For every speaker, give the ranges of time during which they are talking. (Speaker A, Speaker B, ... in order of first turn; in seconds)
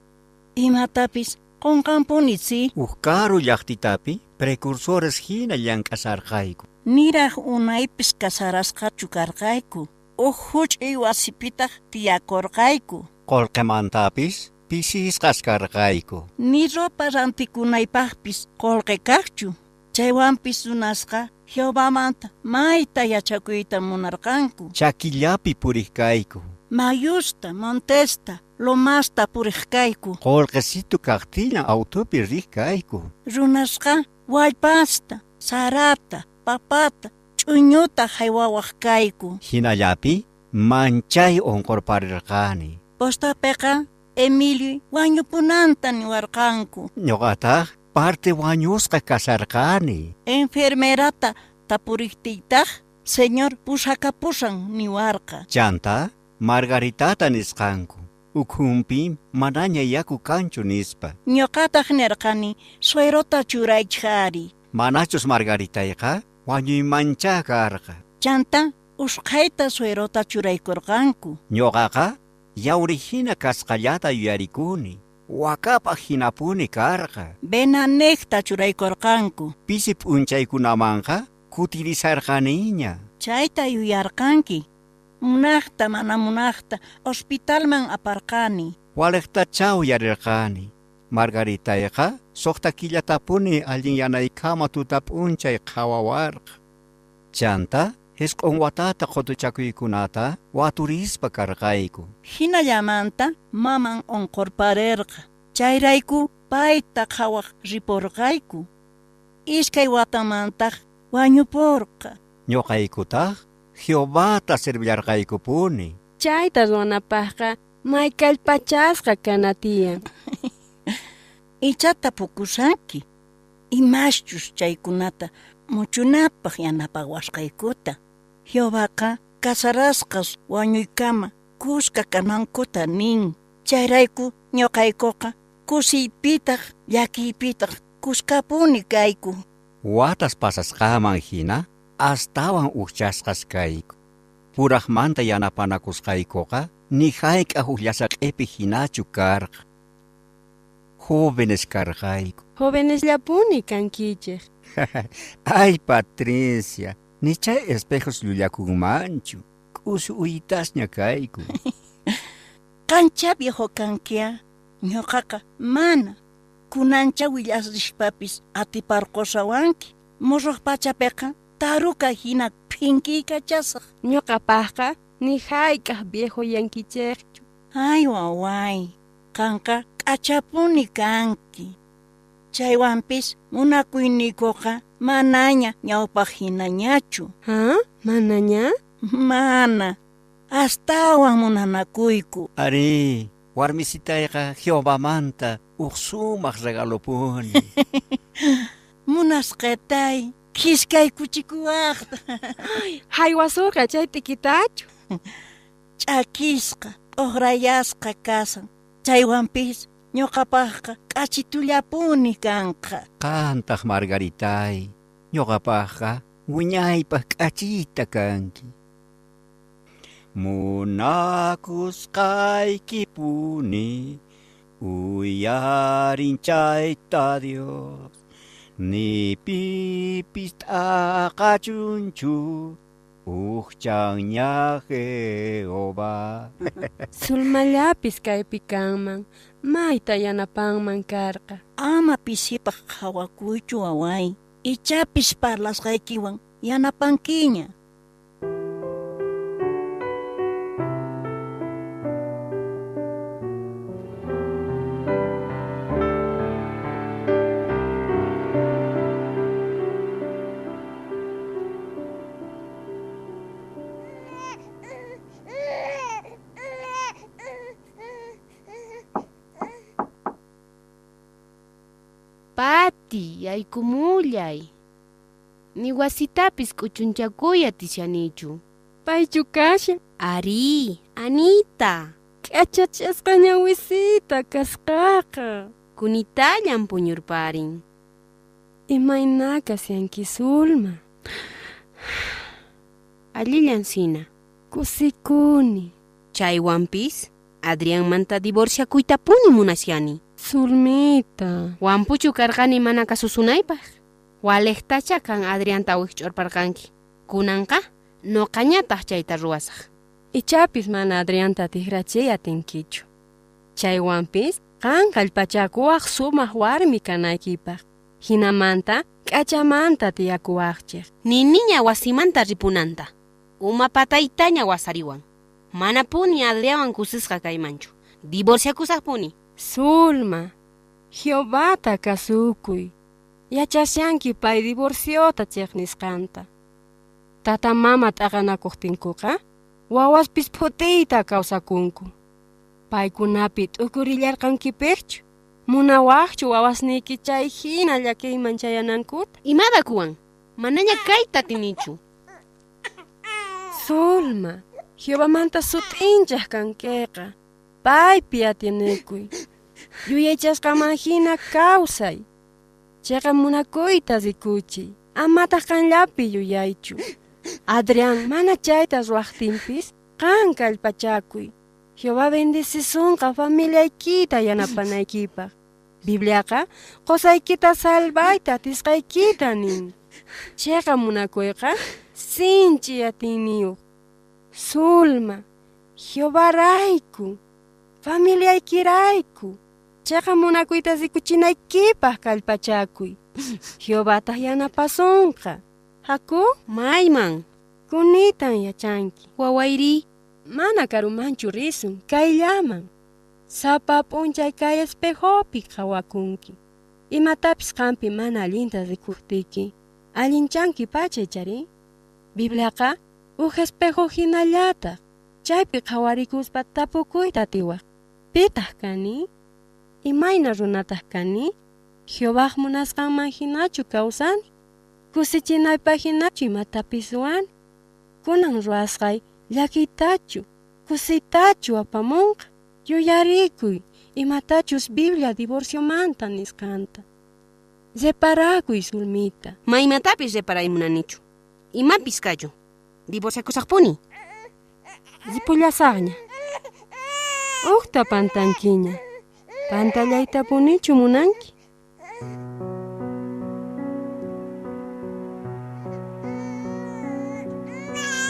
Speaker A: 0.6-2.7, 6.9-13.1, 16.4-24.7, 26.7-30.2, 33.3-39.4, 43.0-46.9, 50.3-55.5, 61.3-64.5, 68.2-71.4, 77.5-79.5, 83.2-84.6, 85.2-88.7, 102.3-108.7, 109.5-112.2, 121.6-123.0, 123.7-128.0, 128.5-139.3, 162.9-166.2, 166.7-173.8, 177.8-181.7, 182.5-187.3, 189.1-190.0, 190.5-192.5, 198.0-202.6, 206.0-213.0, 241.8-247.7
Speaker B: 2.8-6.7, 13.3-16.3, 24.8-26.5, 30.2-33.1, 39.4-42.8, 47.0-50.1, 55.5-61.2, 64.7-68.0, 71.5-77.3, 79.7-83.0, 89.0-96.6, 97.3-102.1, 112.5-116.0, 139.8-143.9, 144.6-149.6, 151.0-152.4, 154.8-161.5, 192.6-197.7, 213.2-218.7, 220.3-224.2, 224.8-228.1, 228.8-236.9
Speaker C: 116.2-120.0, 152.6-154.4, 174.0-177.4, 187.5-188.7, 202.6-204.9, 237.2-241.6, 279.1-280.0, 282.4-285.7, 288.9-291.0, 294.7-295.9, 300.4-301.8, 310.3-313.1, 313.8-321.1, 329.6-330.5, 331.1-332.9, 333.5-336.5, 337.4-339.4, 339.9-342.1, 342.9-349.3, 353.8-359.3, 360.1-362.2, 363.0-367.0, 367.7-375.5, 376.0-379.9, 380.6-383.8, 384.5-385.4, 386.0-387.4, 388.0-393.2, 393.8-396.5, 397.9-399.3, 400.5-402.9, 403.5-406.6, 407.1-411.7, 412.4-417.8, 418.3-419.3, 420.0-421.5, 422.1-424.4, 425.1-427.5, 428.2-437.0, 438.0-439.6, 445.3-446.2, 447.6-449.0, 449.7-451.5
Speaker D: 272.6-274.7, 275.8-278.6, 280.2-282.1, 286.0-287.8, 293.3-294.3, 296.3-300.2, 301.8-309.9, 321.2-329.3, 349.4-352.0, 396.7-397.4, 399.4-400.1, 439.7-441.2, 441.7-442.5, 443.1-444.0